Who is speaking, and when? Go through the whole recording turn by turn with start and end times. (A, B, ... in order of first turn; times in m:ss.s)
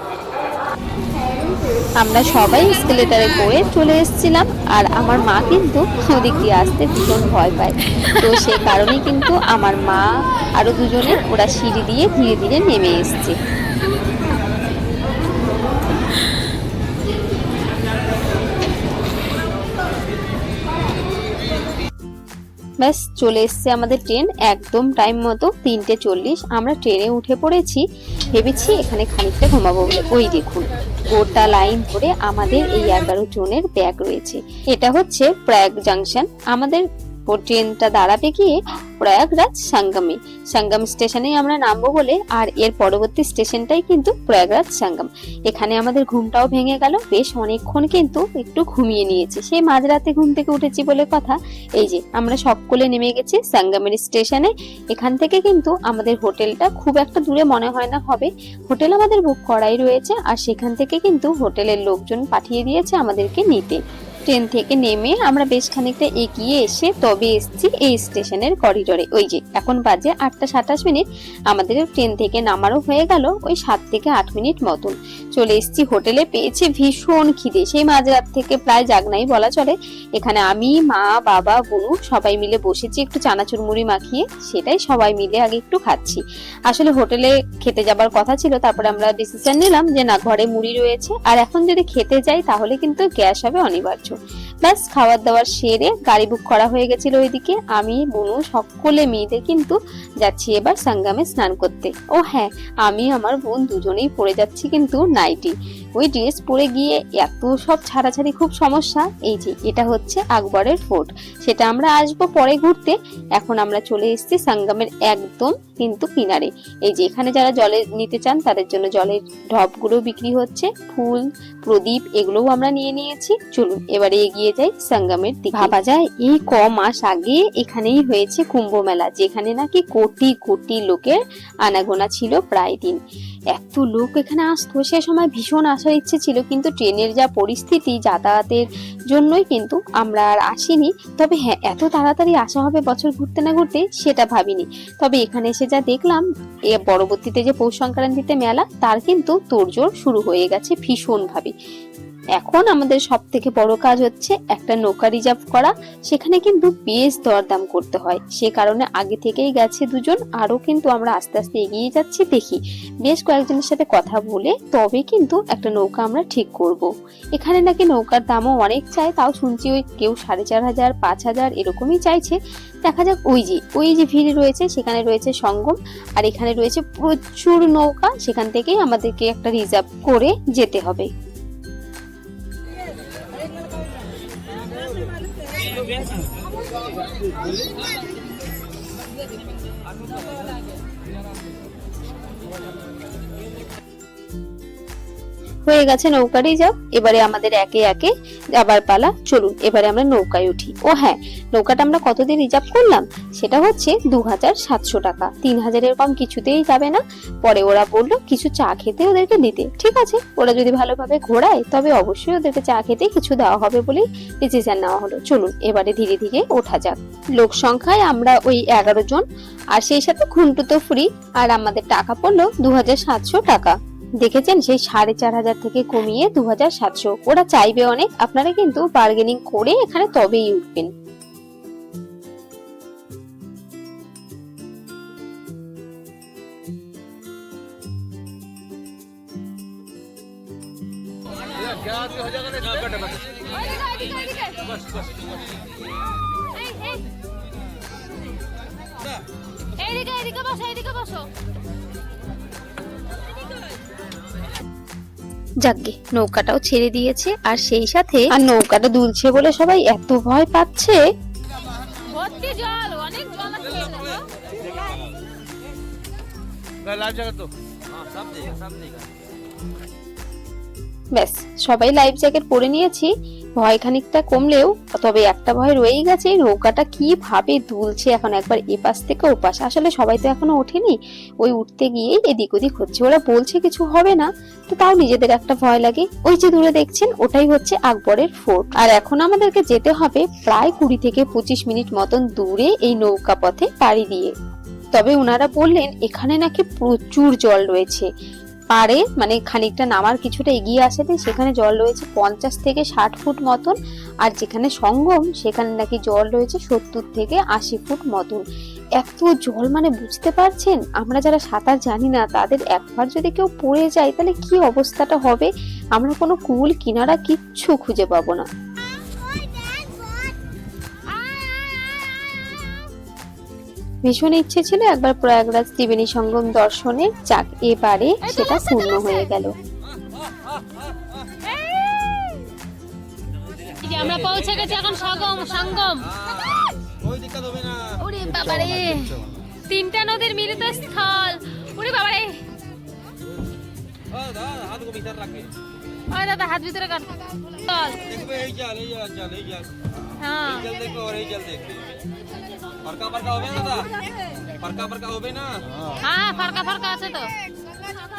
0:02.0-0:13.4 A
0:22.8-2:13.0 A
2:13.5-2:31.5 A
2:32.4-3:01.1 A
3:15.7-3:39.2 A
3:39.8-3:50.9 A
4:03.5-4:04.8 B
4:06.5-4:07.0 B
4:09.8-4:11.3 B
4:15.6-4:17.6 A
4:18.3-4:21.0 A
4:22.1-4:24.2 B
4:31.2-4:54.3 A
4:55.0-4:58.1 A
4:58.8-5:08.4 A
5:09.0-5:18.5 A
5:19.6-5:19.9 B
5:21.1-5:22.9 B
5:24.0-5:29.6 A
5:28.2-5:29.3 B
5:31.5-5:32.5 B
5:33.8-5:36.1 B
5:37.9-5:42.4 B
5:44.6-5:45.4 C
5:46.1-5:48.2 B
5:48.4-5:49.6 C
5:50.2-5:50.8 B
5:50.9-5:51.8 C
5:52.9-5:53.8 C
5:54.7-5:55.6 C
5:56.0-5:57.3 B